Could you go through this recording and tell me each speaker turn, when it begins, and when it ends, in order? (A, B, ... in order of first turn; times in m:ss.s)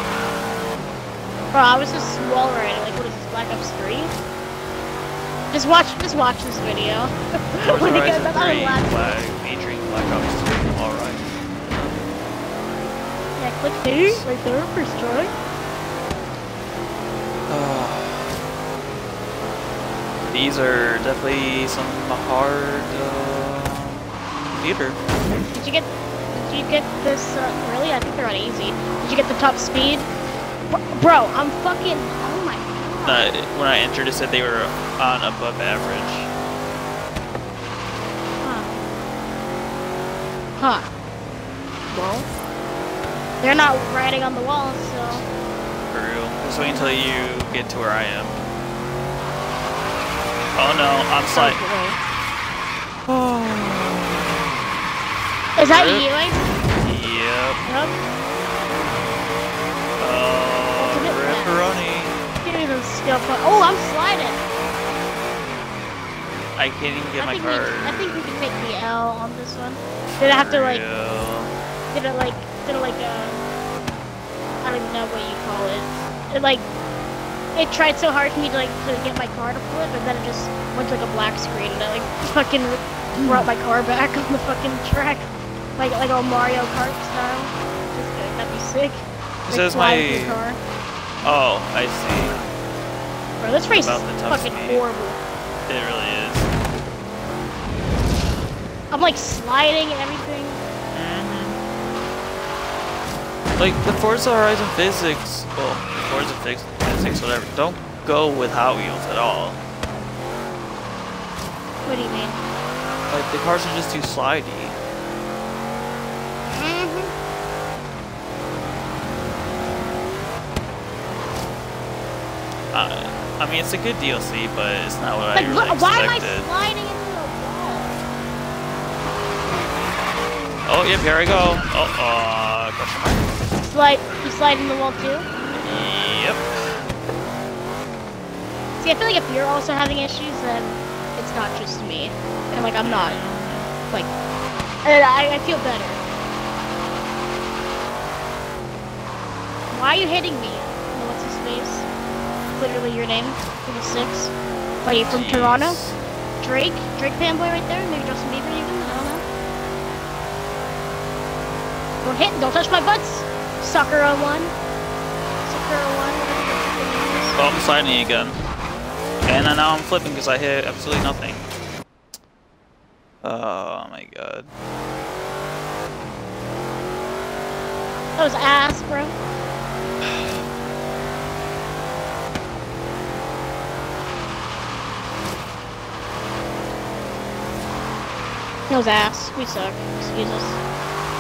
0:01.5-0:04.1 A
0:05.5-0:09.2 A
0:07.6-0:12.0 B
0:13.4-0:15.3 A
0:14.0-0:14.3 B
0:17.5-0:18.3 B
0:20.3-0:25.0 B
0:25.5-0:30.1 A
0:30.7-0:33.3 A
0:33.0-0:36.3 B
0:38.4-0:38.8 A
0:40.6-0:40.9 A
0:41.9-0:42.3 A
0:43.4-0:45.2 A
0:45.9-0:48.4 B
0:50.6-0:51.6 B
0:51.3-0:52.0 A
0:53.1-0:53.9 B
0:55.6-0:56.4 A
0:55.6-0:56.1 B
0:56.8-0:57.6 B
0:57.6-0:58.0 A
1:00.0-1:02.2 B
1:00.8-1:01.8 A
1:02.4-1:04.4 A
1:03.2-1:03.8 B
1:06.6-1:08.0 B
1:07.2-1:10.8 A
1:10.2-1:11.5 B
1:11.9-1:13.4 A
1:14.6-1:16.6 A
1:17.5-1:30.6 A
1:29.5-1:30.4 B
1:31.2-1:32.4 B
1:33.4-1:35.2 A
1:33.8-1:34.8 B
1:35.6-1:36.5 B
1:38.9-1:40.6 A
1:40.9-1:41.6 B
1:43.6-1:49.6 B
1:51.8-1:52.4 A
1:53.1-1:54.8 B
1:56.4-1:57.1 A
2:02.7-2:06.5 B
2:05.3-2:08.0 A
2:10.6-2:13.3 B
2:13.6-2:15.3 A
2:15.5-2:16.4 B
2:18.8-2:23.2 A
2:22.8-2:23.7 B
2:24.8-2:26.0 A
2:29.7-2:31.9 A
2:32.6-2:35.8 A
2:35.1-2:36.0 B
2:36.4-2:39.2 A
2:42.0-2:44.5 A
2:45.4-2:47.4 A
2:47.4-2:48.4 B
2:49.2-2:51.4 B
2:53.2-2:54.5 B
2:58.2-2:59.2 A
3:00.0-3:00.4 B
3:08.7-3:10.6 A